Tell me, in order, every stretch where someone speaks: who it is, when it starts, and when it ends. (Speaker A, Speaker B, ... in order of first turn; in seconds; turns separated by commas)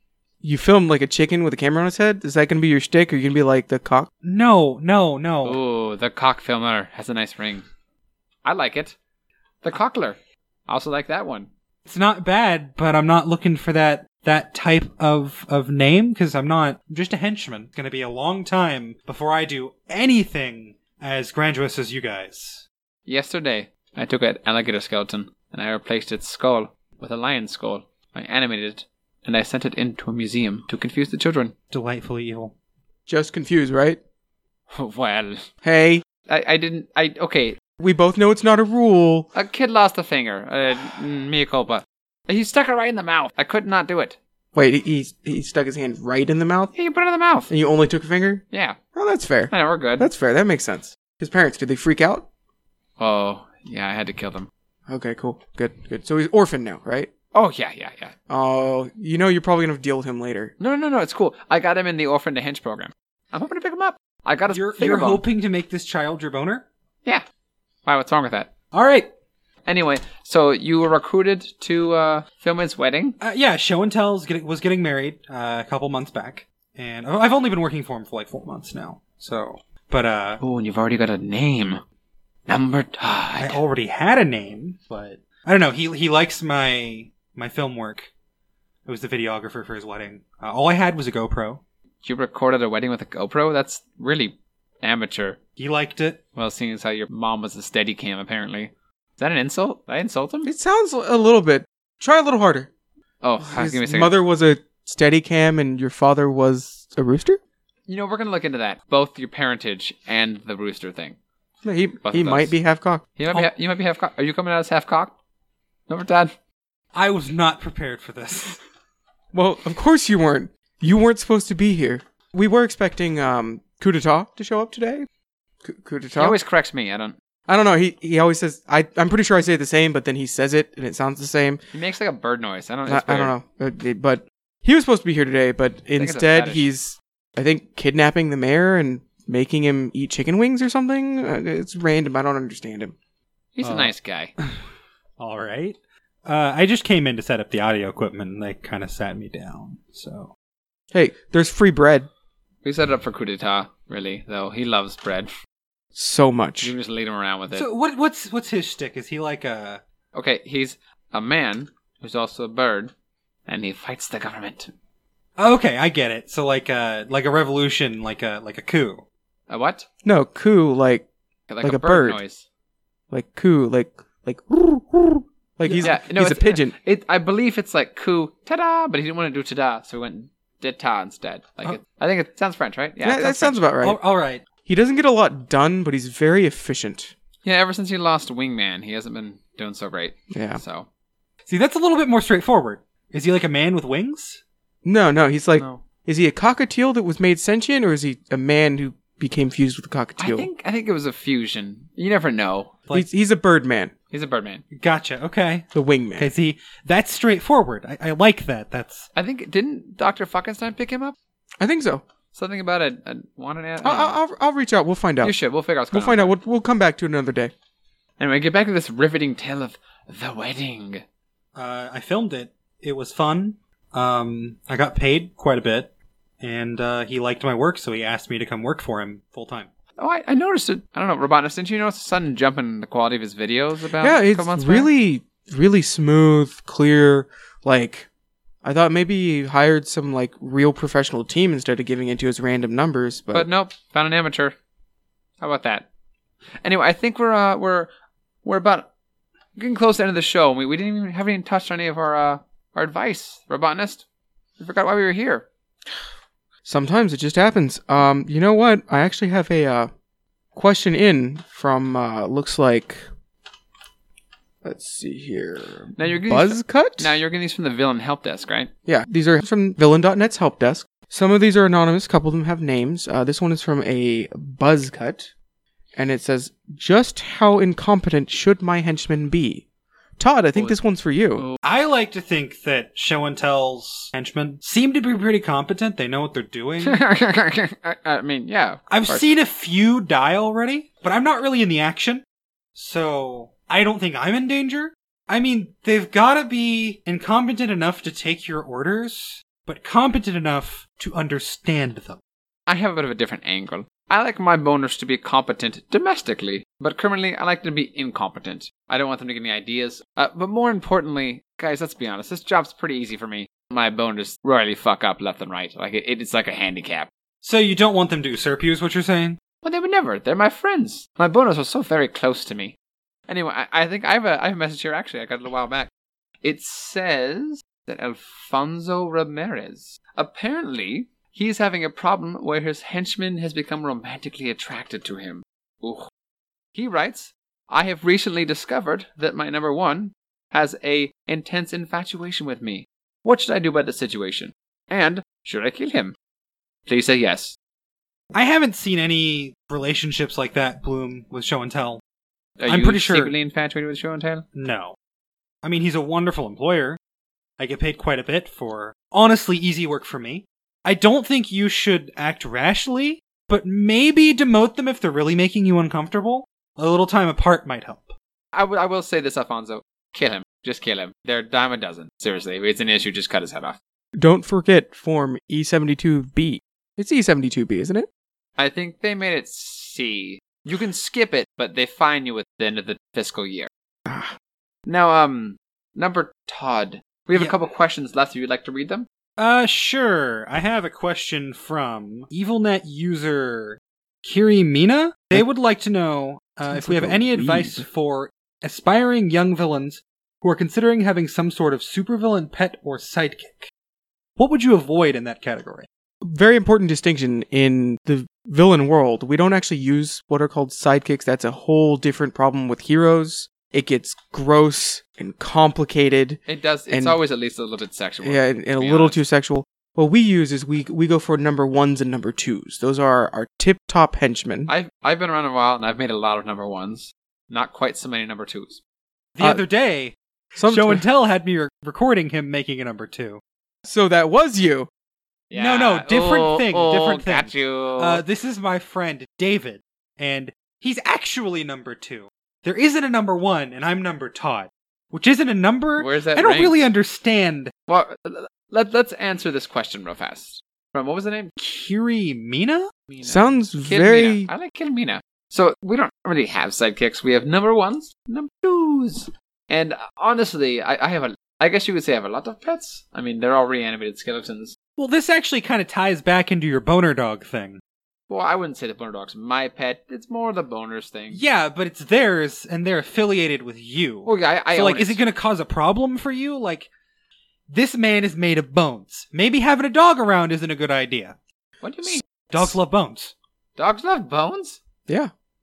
Speaker A: 0.4-4.1, Speaker B: 4.2-5.6, Speaker C: 5.4-7.7, Speaker C: 8.4-8.9, Speaker C: 9.6-10.2, Speaker C: 10.7-11.5, Speaker B: 11.8-22.6, Speaker C: 23.1-31.5, Speaker B: 31.7-32.5, Speaker A: 33.1-34.0, Speaker C: 34.7-35.5, Speaker A: 35.6-36.0, Speaker C: 36.3-37.6, Speaker A: 37.8-39.3, Speaker C: 39.3-44.2, Speaker A: 44.5-46.7, Speaker C: 46.7-47.5, Speaker A: 47.5-52.2, Speaker C: 48.5-48.8, Speaker C: 49.5-50.1, Speaker C: 53.0-54.5, Speaker A: 54.9-57.1, Speaker C: 57.3-58.1, Speaker A: 58.3-60.5, Speaker C: 60.6-65.2, Speaker B: 64.5-66.6, Speaker C: 67.8-68.5, Speaker B: 68.7-69.1, Speaker C: 69.7-73.2, Speaker B: 73.2-80.4, Speaker C: 80.4-81.8, Speaker C: 82.5-83.6, Speaker B: 83.4-88.1, Speaker B: 88.8-91.6, Speaker C: 92.0-95.4, Speaker B: 95.6-96.2, Speaker C: 96.3-100.5, Speaker A: 100.4-102.7, Speaker C: 103.2-104.1, Speaker A: 103.4-107.4, Speaker C: 107.9-111.2, Speaker A: 111.6-113.0, Speaker C: 112.0-112.5, Speaker C: 113.2-115.1, Speaker C: 115.9-116.3, Speaker B: 116.9-118.6, Speaker A: 119.3-125.1, Speaker A: 125.6-126.3, Speaker C: 126.2-127.1, Speaker A: 127.5-131.6, Speaker C: 131.7-133.3, Speaker A: 132.8-142.9, Speaker C: 136.0-136.7, Speaker C: 143.6-144.3, Speaker B: 143.6-144.6, Speaker B: 145.2-150.3, Speaker A: 150.9-152.1, Speaker C: 152.6-155.3, Speaker A: 155.9-156.7, Speaker C: 156.6-157.7, Speaker B: 157.5-159.8, Speaker C: 160.1-162.9, Speaker C: 163.5-164.7, Speaker B: 165.4-169.0, Speaker C: 169.5-169.9, Speaker A: 170.0-171.1, Speaker C: 171.5-172.4, Speaker A: 171.6-172.2, Speaker A: 173.1-176.7, Speaker B: 175.6-175.9, Speaker C: 175.8-183.6, Speaker A: 183.0-184.0, Speaker B: 183.8-184.4, Speaker A: 184.6-187.1, Speaker C: 187.4-190.9, Speaker A: 190.3-190.6, Speaker B: 191.5-194.4, Speaker A: 194.8-200.5, Speaker C: 195.6-195.8, Speaker C: 200.2-202.7, Speaker A: 202.9-203.9, Speaker C: 204.1-204.6, Speaker B: 204.7-209.1, Speaker A: 205.7-206.3, Speaker C: 209.1-211.1, Speaker A: 211.6-212.0, Speaker C: 212.3-214.2, Speaker A: 213.8-215.3, Speaker C: 215.2-216.3, Speaker A: 215.9-217.5, Speaker C: 218.2-221.0, Speaker B: 221.6-229.7, Speaker C: 230.0-234.9, Speaker A: 234.0-238.1, Speaker A: 238.6-243.5, Speaker C: 243.3-244.5, Speaker C: 245.4-245.8, Speaker C: 246.6-247.9, Speaker C: 248.4-248.9, Speaker C: 249.6-254.0, Speaker C: 254.6-255.4, Speaker A: 256.6-259.9, Speaker A: 260.5-263.1, Speaker A: 264.6-267.1, Speaker C: 265.9-268.7, Speaker A: 268.9-275.3, Speaker A: 275.9-279.6, Speaker A: 280.2-281.4, Speaker B: 281.6-287.0, Speaker C: 286.8-289.3, Speaker B: 288.9-292.2, Speaker B: 292.7-302.2, Speaker C: 302.7-317.1, Speaker B: 317.4-319.4, Speaker C: 319.6-322.7, Speaker C: 323.3-325.9, Speaker C: 326.4-336.1, Speaker C: 336.7-346.1, Speaker C: 346.9-347.6, Speaker B: 348.3-352.0, Speaker C: 352.6-354.4, Speaker B: 352.6-353.3, Speaker B: 354.5-354.9, Speaker B: 355.6-357.0, Speaker B: 357.6-368.1, Speaker C: 368.5-373.8, Speaker A: 374.1-378.1, Speaker C: 378.6-383.7, Speaker A: 384.1-384.3, Speaker C: 384.9-389.1, Speaker B: 389.4-403.7, Speaker A: 396.7-397.9, Speaker B: 404.4-405.9, Speaker A: 406.2-417.2, Speaker C: 416.4-419.2, Speaker A: 418.2-424.7, Speaker C: 424.7-428.8, Speaker B: 429.4-433.4, Speaker A: 430.6-431.0, Speaker A: 433.8-434.9, Speaker C: 435.5-438.2, Speaker B: 435.5-447.7, Speaker C: 446.0-446.8, Speaker C: 447.9-451.5, Speaker B: 451.6-452.9, Speaker C: 453.1-464.8, Speaker A: 453.2-454.5, Speaker B: 465.0-467.8, Speaker C: 468.3-471.4, Speaker B: 471.3-476.9, Speaker C: 474.2-475.2, Speaker B: 477.7-481.4, Speaker C: 481.8-482.2, Speaker B: 482.5-483.3, Speaker C: 483.8-484.8